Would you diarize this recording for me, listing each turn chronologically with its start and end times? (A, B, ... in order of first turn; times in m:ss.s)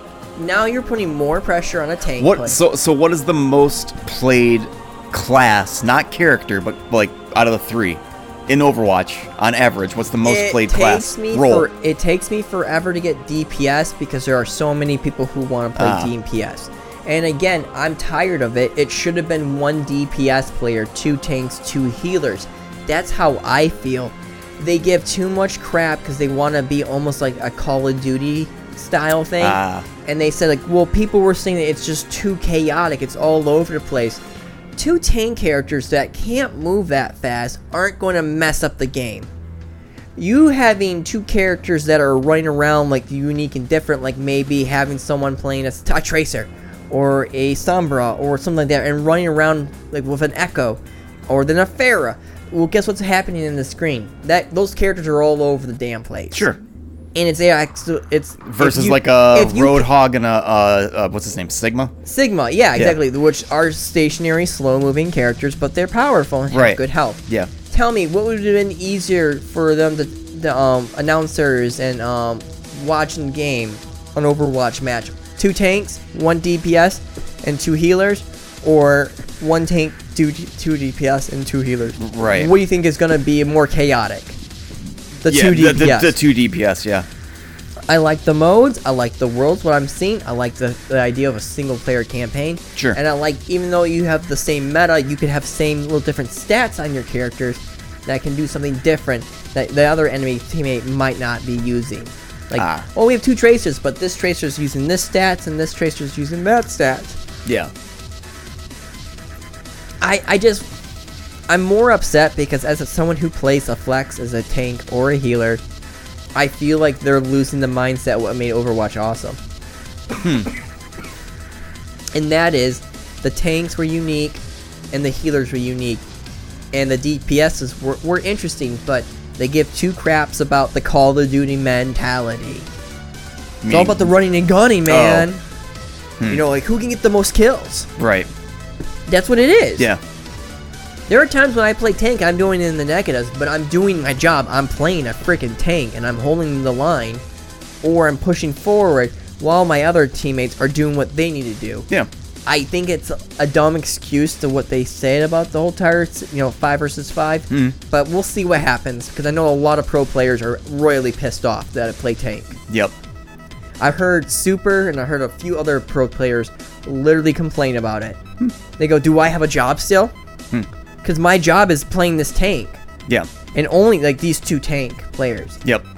0:00.4-0:02.6 A
0:02.2-0:11.7 B
0:10.2-0:34.2 A
0:15.8-0:16.1 B
0:29.4-0:29.9 B
0:34.8-0:39.3 A
0:40.2-0:56.5 A
0:56.3-0:56.6 B
0:57.1-0:59.9 A
0:58.4-1:01.9 B
1:02.0-1:24.4 A
1:06.5-1:07.5 B
1:22.0-1:22.5 B
1:25.2-1:26.1 A
1:25.3-1:27.0 B
1:27.9-1:47.2 A
1:42.5-1:42.8 B
1:47.4-1:47.7 B
1:50.0-1:50.7 A
1:51.5-1:55.6 A
1:56.3-1:59.4 A
2:00.1-2:00.5 B
2:02.1-2:06.0 A
2:06.7-2:12.7 A
2:13.6-2:14.1 B
2:13.7-2:15.4 A
2:14.9-2:15.3 B
2:16.2-2:17.9 A
2:18.0-2:18.3 B
2:19.1-2:19.9 A
2:21.1-2:27.2 A
2:27.8-2:31.9 A
2:32.4-2:42.6 A
2:37.5-2:37.8 B
2:42.7-2:42.9 B
2:43.8-2:48.2 A
2:48.8-2:50.1 A
2:51.0-2:52.8 A
2:53.5-2:55.6 A